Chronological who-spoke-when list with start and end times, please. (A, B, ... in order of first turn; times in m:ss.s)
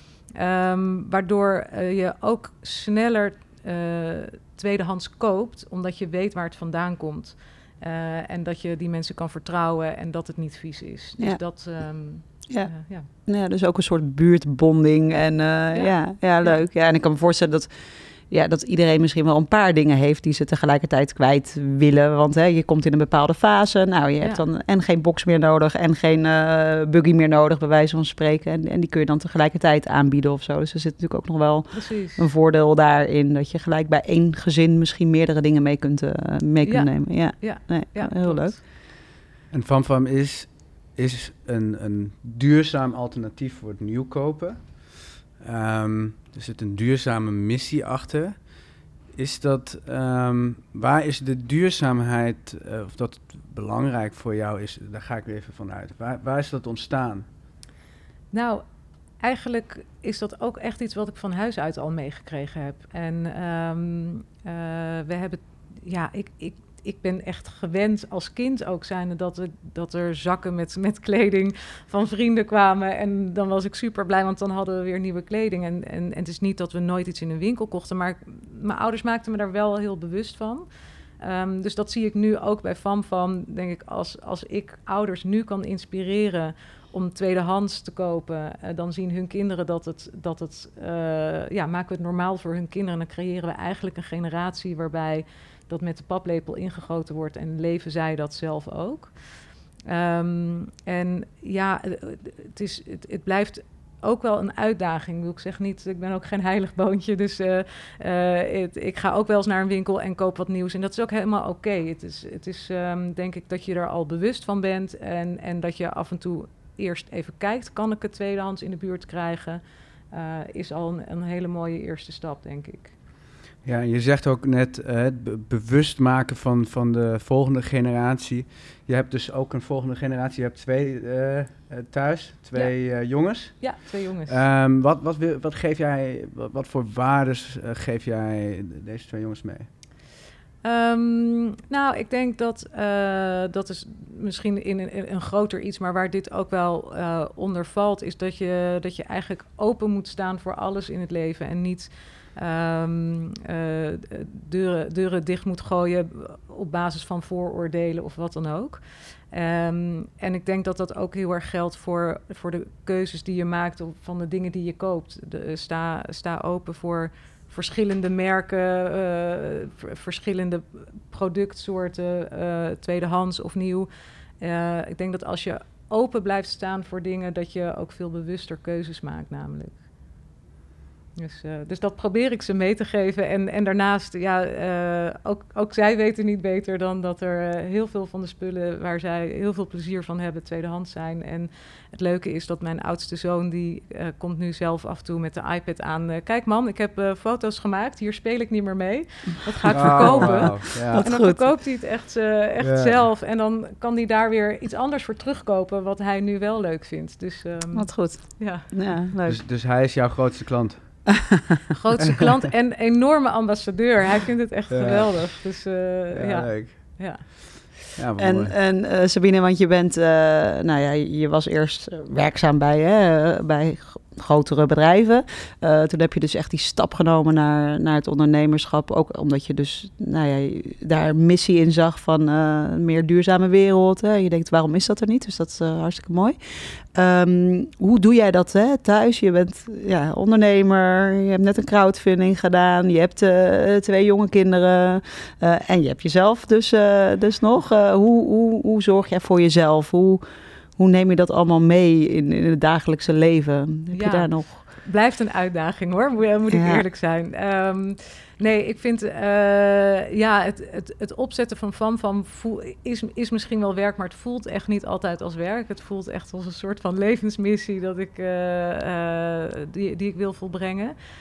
0:00.3-0:13.1 A
0:11.2-0:11.5 B
0:12.5-0:17.7 B
0:15.7-0:16.6 A
0:18.3-0:38.6 B
0:31.7-0:32.3 A
0:36.6-0:38.6 A
0:39.5-0:44.8 C
0:45.4-0:48.4 C
0:49.1-0:57.2 C
0:58.3-0:58.6 A
0:59.2-1:20.6 A
1:21.2-1:39.1 A
1:39.9-2:02.9 A
2:03.6-2:19.7 C
2:13.5-2:14.4 A
2:20.6-2:59.8 A
3:01.2-3:29.0 A
3:19.7-3:21.5 B
3:19.7-3:21.1 C
3:22.6-3:23.0 C
3:27.7-3:29.4 B
3:29.2-3:31.3 C
3:31.7-3:37.8 A
3:34.7-3:37.3 C
3:37.9-3:38.5 C
3:38.2-4:10.2 B
4:10.8-4:14.6 B
4:13.9-4:30.9 A
4:16.5-4:16.8 B